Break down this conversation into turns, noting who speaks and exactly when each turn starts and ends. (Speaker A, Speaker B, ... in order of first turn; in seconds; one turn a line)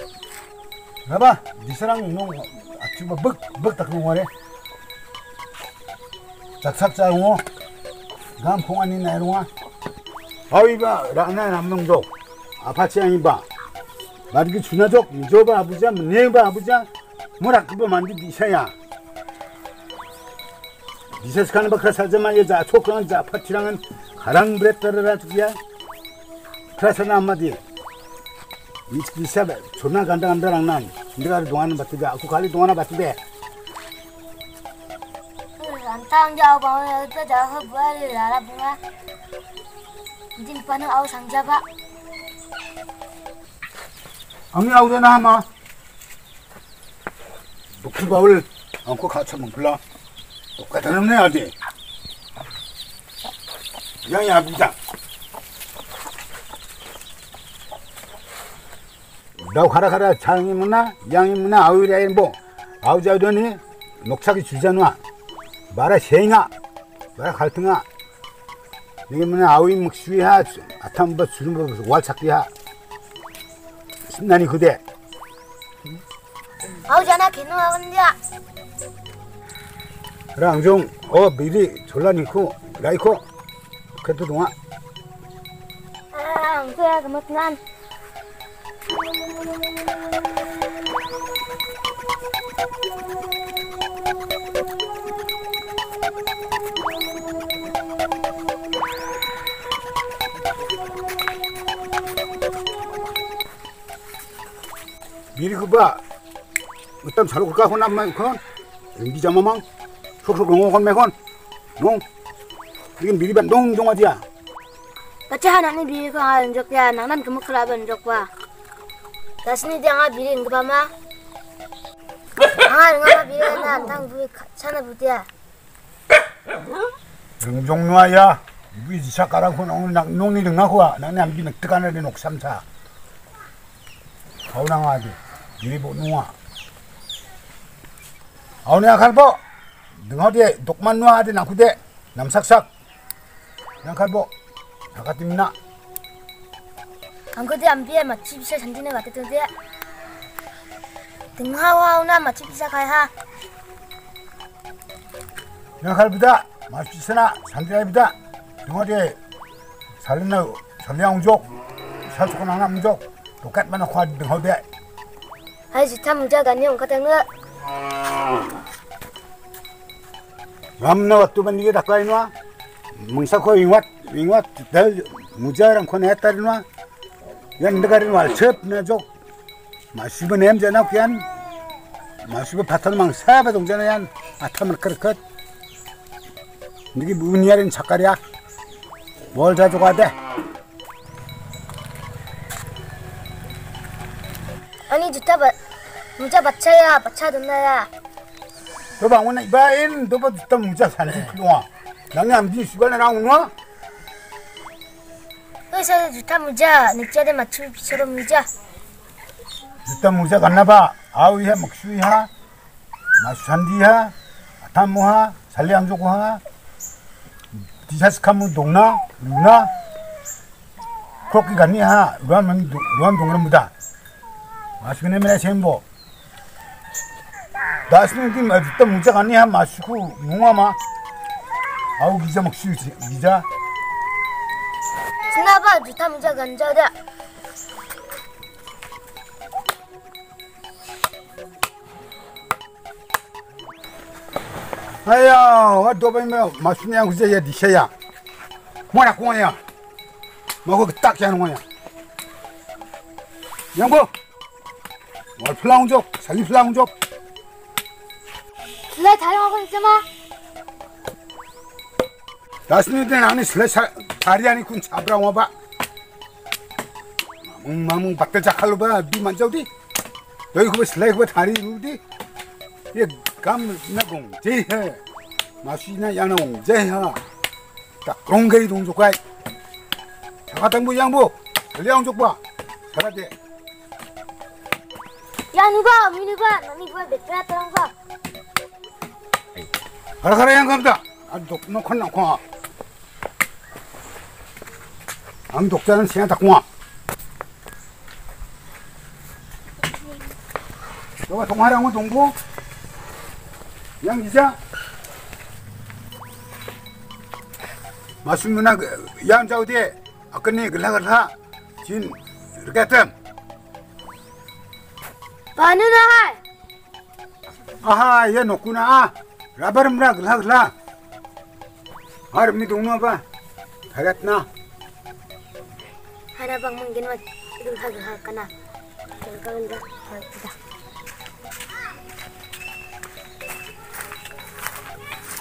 Speaker A: 1.1-4.3
Speaker A: 6.6-7.4
Speaker A: 8.4-9.5
Speaker A: 10.5-12.1
Speaker A: 12.6-13.4
Speaker A: 14.3-16.9
Speaker A: 17.4-18.7
Speaker A: 21.2-25.6
Speaker A: 26.8-27.6
Speaker A: 28.9-33.2
Speaker B: 35.6-38.8
Speaker B: 40.4-41.6
Speaker A: 44.5-45.5
Speaker A: 47.8-49.8
Speaker A: 50.6-51.5
Speaker A: 54.1-54.8
Speaker A: 59.4-65.0
Speaker A: 65.7-66.5
Speaker A: 67.2-67.8
Speaker A: 69.1-72.5
Speaker A: 74.1-74.8
Speaker B: 76.9-78.2
Speaker A: 80.4-83.2
Speaker A: 84.0-84.5
Speaker B: 86.1-87.6
Speaker A: 105.3-106.0
Speaker A: 107.0-108.4
Speaker A: 109.0-109.6
Speaker A: 110.2-111.1
Speaker A: 111.8-112.0
Speaker A: 113.0-114.2
Speaker B: 115.3-118.3
Speaker B: 119.4-120.9
Speaker B: 122.6-125.3
Speaker A: 127.4-132.6
Speaker A: 134.5-136.3
Speaker A: 138.7-139.4
Speaker A: 139.9-142.7
Speaker A: 143.8-144.3
Speaker A: 144.9-145.5
Speaker B: 147.4-149.5
Speaker B: 151.4-153.1
Speaker A: 155.8-158.1
Speaker A: 158.7-159.2
Speaker A: 160.0-161.5
Speaker A: 162.1-164.6
Speaker B: 165.7-167.3
Speaker A: 170.8-172.3
Speaker A: 172.9-176.7
Speaker A: 177.6-179.1
Speaker A: 179.9-181.3
Speaker A: 182.2-185.2
Speaker A: 186.9-188.2
Speaker A: 189.3-190.1
Speaker B: 194.9-195.6
Speaker B: 196.2-197.9
Speaker A: 199.0-203.5
Speaker B: 205.7-208.5
Speaker A: 209.8-212.3
Speaker A: 213.2-216.4
Speaker A: 217.8-219.7
Speaker A: 221.3-223.7
Speaker A: 224.8-225.8
Speaker A: 227.9-230.8
Speaker A: 232.0-233.5
Speaker B: 235.3-236.9
Speaker A: 245.0-247.9
Speaker A: 248.9-249.6
Speaker A: 250.6-251.6
Speaker A: 253.7-254.1
Speaker A: 255.4-256.9
Speaker B: 258.9-260.1
Speaker A: 262.7-265.5
Speaker A: 267.4-269.7
Speaker A: 270.5-272.0
Speaker A: 272.9-275.0
Speaker A: 275.6-277.2
Speaker A: 278.0-279.2
Speaker A: 280.5-283.3
Speaker B: 285.5-287.9
Speaker A: 290.2-292.4
Speaker A: 295.5-296.6
Speaker A: 301.3-302.4
Speaker A: 304.0-304.6
Speaker A: 308.2-313.1
Speaker B: 315.6-316.4
Speaker A: 317.8-320.7
Speaker A: 322.3-323.2
Speaker A: 323.9-324.5
Speaker B: 326.4-328.5
Speaker B: 329.2-330.5